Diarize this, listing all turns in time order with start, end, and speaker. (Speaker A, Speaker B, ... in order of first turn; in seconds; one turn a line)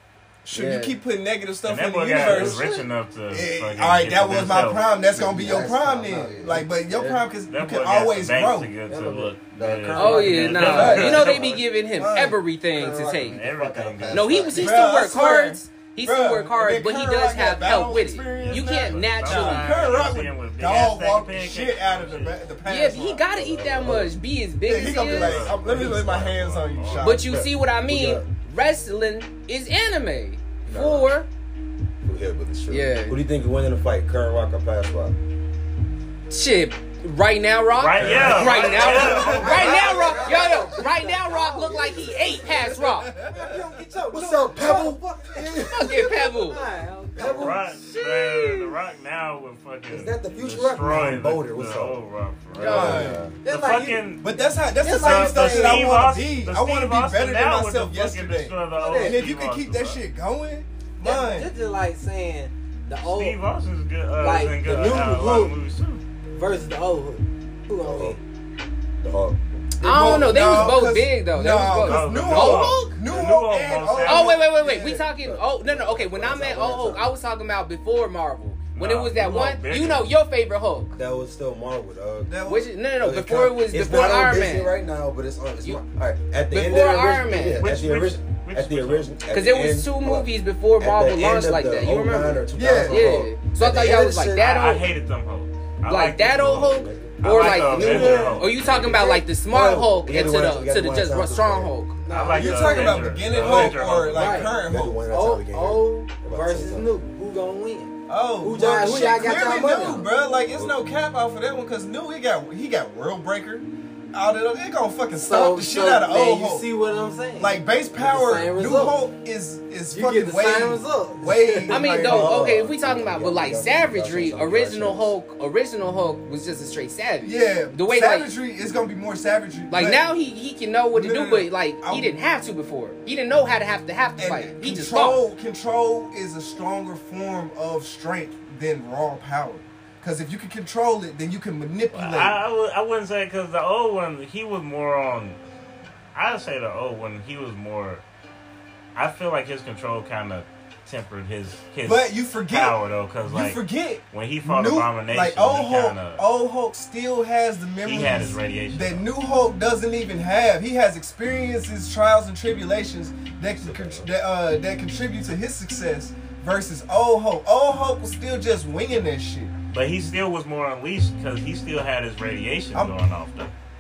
Speaker A: 0.5-8.7
Speaker B: 0.5-0.9
Speaker C: 1.6-4.8
Speaker D: 2.2-2.7
Speaker D: 5.1-6.7
Speaker B: 7.0-7.2
Speaker C: 7.5-11.4
Speaker D: 8.9-11.6
Speaker B: 9.9-13.4
Speaker A: 10.6-12.4
Speaker D: 12.7-14.9
Speaker C: 13.2-14.4
Speaker B: 14.1-19.9
Speaker A: 14.6-23.2
Speaker C: 18.4-22.5
Speaker B: 22.6-25.5
Speaker D: 23.3-24.2
Speaker A: 24.6-27.4
Speaker C: 24.9-27.1
Speaker D: 25.5-26.4
Speaker B: 27.0-31.3
Speaker D: 27.2-28.3
Speaker D: 30.6-31.1
Speaker D: 32.0-35.2
Speaker B: 32.7-33.2
Speaker B: 36.3-43.1
Speaker C: 37.8-39.6
Speaker D: 38.0-42.7
Speaker A: 38.2-40.2
Speaker E: 39.1-42.1
Speaker A: 42.8-43.4
Speaker E: 43.2-48.6
Speaker D: 44.1-46.0
Speaker B: 45.7-46.6
Speaker D: 47.2-47.6
Speaker C: 47.4-54.4
Speaker D: 49.9-52.0
Speaker D: 52.5-53.4
Speaker B: 52.6-53.2
Speaker A: 52.6-61.5
Speaker E: 54.8-55.9
Speaker C: 55.0-60.0
Speaker E: 58.8-59.2
Speaker E: 61.0-63.4
Speaker C: 63.0-66.0
Speaker E: 64.2-65.6
Speaker E: 66.3-68.2
Speaker D: 67.7-68.2
Speaker D: 69.0-70.9
Speaker A: 69.8-75.0
Speaker B: 69.8-73.0
Speaker C: 71.8-74.4
Speaker B: 74.0-81.0
Speaker D: 75.2-77.1
Speaker C: 78.8-80.1
Speaker D: 81.0-82.4
Speaker A: 82.3-82.7
Speaker B: 82.5-84.7
Speaker D: 83.0-94.5
Speaker B: 86.5-87.7
Speaker C: 87.6-89.1
Speaker B: 89.3-94.9
Speaker A: 92.5-93.1
Speaker C: 94.3-98.6
Speaker B: 95.9-102.0
Speaker D: 96.4-101.8
Speaker E: 97.7-98.5
Speaker E: 102.0-110.1
Speaker C: 102.1-104.5
Speaker A: 102.3-105.0
Speaker D: 103.3-103.8
Speaker D: 104.6-106.9
Speaker A: 108.1-116.7
Speaker D: 110.5-110.8
Speaker E: 115.2-119.0
Speaker A: 117.4-122.4
Speaker E: 119.9-121.9
Speaker B: 121.7-128.3
Speaker D: 122.0-125.2
Speaker A: 127.2-130.1
Speaker B: 129.7-135.2
Speaker A: 130.9-132.1
Speaker A: 134.2-142.4
Speaker C: 141.9-145.4
Speaker C: 146.1-148.0
Speaker C: 148.9-156.2
Speaker A: 151.8-169.5
Speaker C: 157.8-159.1
Speaker D: 163.6-164.1
Speaker C: 169.7-173.5